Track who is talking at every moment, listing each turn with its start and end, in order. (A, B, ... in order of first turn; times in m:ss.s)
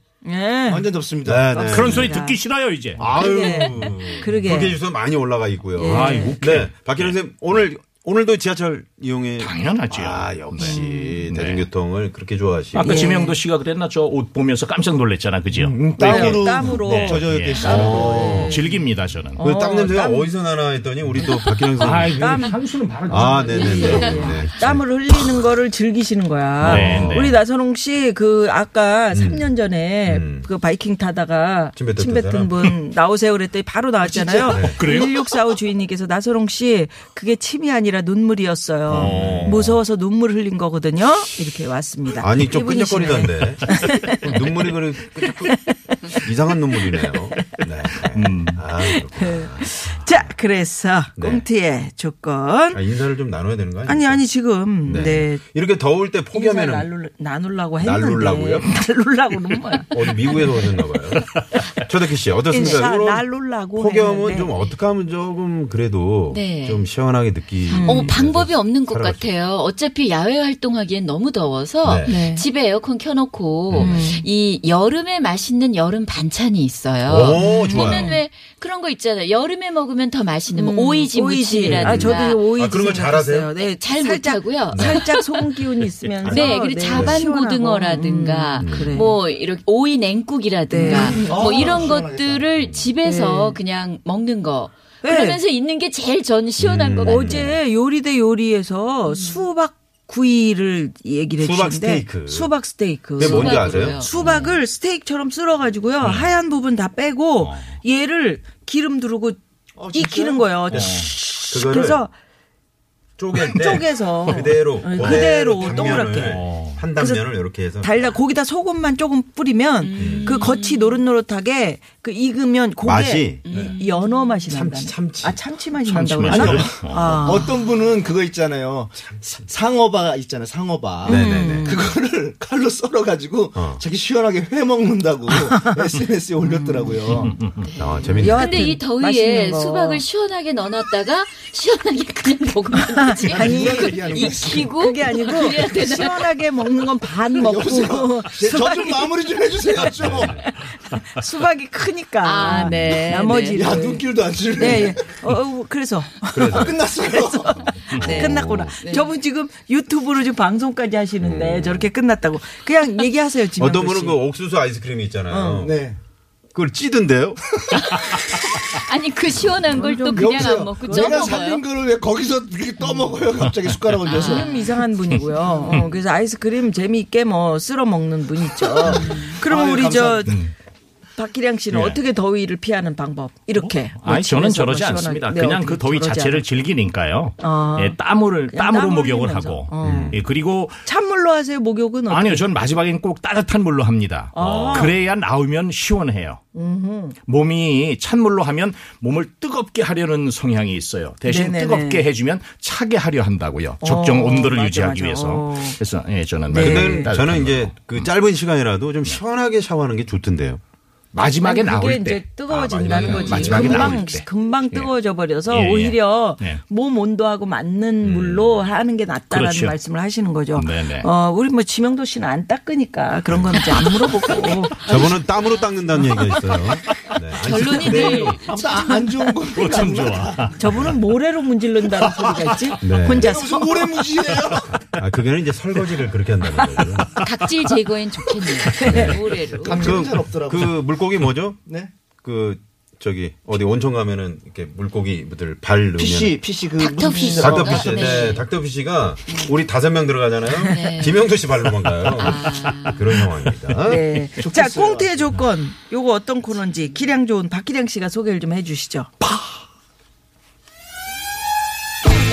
0:00.2-0:00.9 A
0:00.7-0:01.5 B
0:01.2-0:02.2 C
0:01.5-0:02.4 A
0:01.7-0:03.0 D
0:03.0-0:13.1 C
0:03.0-0:04.8 A
0:05.8-0:06.4 A
0:05.9-0:07.1 D
0:09.4-0:11.6 D
0:10.6-0:11.1 A
0:12.7-0:19.4 D
0:12.8-0:13.3 A
0:15.5-0:18.5 B
0:16.0-0:18.6 A
0:17.6-0:18.6 C
0:19.4-0:20.3 A
0:19.4-0:22.4 C
0:21.2-0:22.6 A
0:21.8-0:24.5 D
0:23.1-0:24.8 C
0:23.1-0:44.5 A
0:23.5-0:24.3 E
0:26.6-0:27.4 C
0:26.6-0:27.4 D
0:29.1-0:29.5 C
0:30.1-0:30.5 C
0:31.8-0:32.7 C
0:34.4-0:35.4 D
0:34.4-0:34.8 C
0:38.9-0:39.7 D
0:38.9-0:39.8 C
0:42.2-0:45.6 C
0:45.2-0:46.3 A
0:46.1-0:50.3 C
0:46.8-0:47.6 A
0:48.1-0:48.6 D
0:48.8-0:52.8 A
0:51.2-0:51.4 C
0:52.7-0:54.2 C
0:53.8-0:55.4 A
0:54.8-0:56.9 C
0:56.3-1:00.7 A
0:57.8-0:58.7 C
0:59.9-1:09.2 C
1:02.5-1:04.5 A
1:06.3-1:06.8 E
1:07.7-1:08.1 A
1:07.8-1:22.4 E
1:11.8-1:12.2 C
1:12.0-1:12.4 A
1:13.7-1:14.0 C
1:13.8-1:14.3 A
1:17.1-1:18.1 C
1:17.4-1:18.2 A
1:20.5-1:29.2 A
1:21.6-1:23.5 C
1:23.6-1:25.4 E
1:24.7-1:25.0 C
1:26.2-1:27.2 C
1:26.3-1:37.5 E
1:28.6-1:29.0 C
1:30.7-1:31.4 A
1:30.8-1:32.5 B
1:31.4-1:31.9 C
1:32.6-1:32.9 C
1:33.0-1:33.6 A
1:35.0-1:35.4 A
1:36.6-1:37.5 C
1:37.0-1:49.4 A
1:39.1-1:39.4 E
1:41.4-1:42.5 C
1:43.2-1:44.6 E
1:43.2-1:44.0 C
1:49.8-1:50.8 B
1:49.9-1:52.1 A
1:50.7-1:52.0 C
1:50.7-1:51.1 D
1:53.2-1:58.2 C
1:53.4-1:56.4 A
1:56.0-1:56.8 D
1:57.0-1:57.3 A
1:57.8-2:07.5 A
1:59.8-2:01.0 E
2:00.0-2:00.3 C
2:02.8-2:03.7 C
2:03.4-2:04.4 E
2:04.5-2:05.4 C
2:05.9-2:07.1 D
2:06.3-2:17.4 B
2:06.9-2:07.2 C
2:09.0-2:09.4 C
2:11.0-2:11.8 A
2:11.0-2:11.7 C
2:13.5-2:13.8 C
2:16.4-2:17.2 A
2:17.2-2:17.6 D
2:17.6-2:26.3 E
2:17.8-2:18.5 C
2:18.2-2:20.0 A
2:22.7-2:29.3 A
2:23.2-2:24.7 B
2:27.3-2:30.4 B
2:30.0-2:30.5 C
2:30.0-2:34.0 A
2:32.2-2:33.8 E
2:33.4-2:35.2 B
2:34.6-2:44.2 A
2:36.3-2:36.8 C
2:36.5-2:37.7 B
2:37.9-2:39.1 E
2:38.0-2:38.7 C
2:41.2-2:41.9 C
2:43.6-2:45.8 C
2:45.3-2:45.7 A
2:45.6-2:46.0 B
2:46.5-2:47.9 C
2:47.9-2:51.6 E
2:49.7-2:51.4 A
2:49.9-2:54.5 B
2:52.8-2:53.1 A
2:54.0-2:54.6 E
2:54.2-3:00.4 A
2:55.5-2:55.8 B
2:58.5-3:00.4 B
2:59.0-2:59.3 E
3:00.3-3:00.5 D
3:01.2-3:06.4 A
3:01.7-3:02.0 D
3:03.6-3:10.8 D
3:07.4-3:08.0 A
3:08.5-3:10.2 A
3:09.8-3:10.2 C
3:10.8-3:12.4 A
3:12.1-3:16.4 D
3:14.3-3:15.0 A
3:14.4-3:14.9 C
3:16.5-3:17.2 A
3:17.3-3:28.1 D
3:21.3-3:22.0 A
3:23.8-3:25.8 A
3:26.5-3:27.1 A
3:26.5-3:30.6 C
3:31.1-3:32.2 D
3:31.4-3:45.2 A
3:32.5-3:34.1 C
3:32.9-3:34.9 D
3:33.1-3:33.6 E
3:35.5-3:36.6 D
3:39.3-3:39.8 D
3:40.5-3:41.1 D
3:44.8-3:48.4 C
3:46.0-3:46.3 A
3:47.4-3:49.1 E
3:47.7-3:48.3 A
3:48.4-3:50.5 B
3:49.5-3:50.8 D
3:50.6-3:54.1 A
3:52.0-3:52.8 D
3:52.8-3:53.4 C
3:53.1-3:54.8 B
3:54.4-3:55.0 D
3:54.9-3:57.2 C
3:56.7-3:57.3 D
3:57.2-3:59.9 E
3:58.6-3:59.6 A
3:58.8-4:01.6 C
3:59.6-4:00.8 B
4:01.6-4:01.9 B
4:02.2-4:06.4 C
4:06.0-4:08.4 B
4:06.8-4:08.4 E
4:07.4-4:14.0 C
4:10.6-4:11.2 E
4:12.2-4:13.0 E
4:12.5-4:12.9 D
4:13.8-4:19.1 A
4:14.4-4:15.3 B
4:19.2-4:19.5 D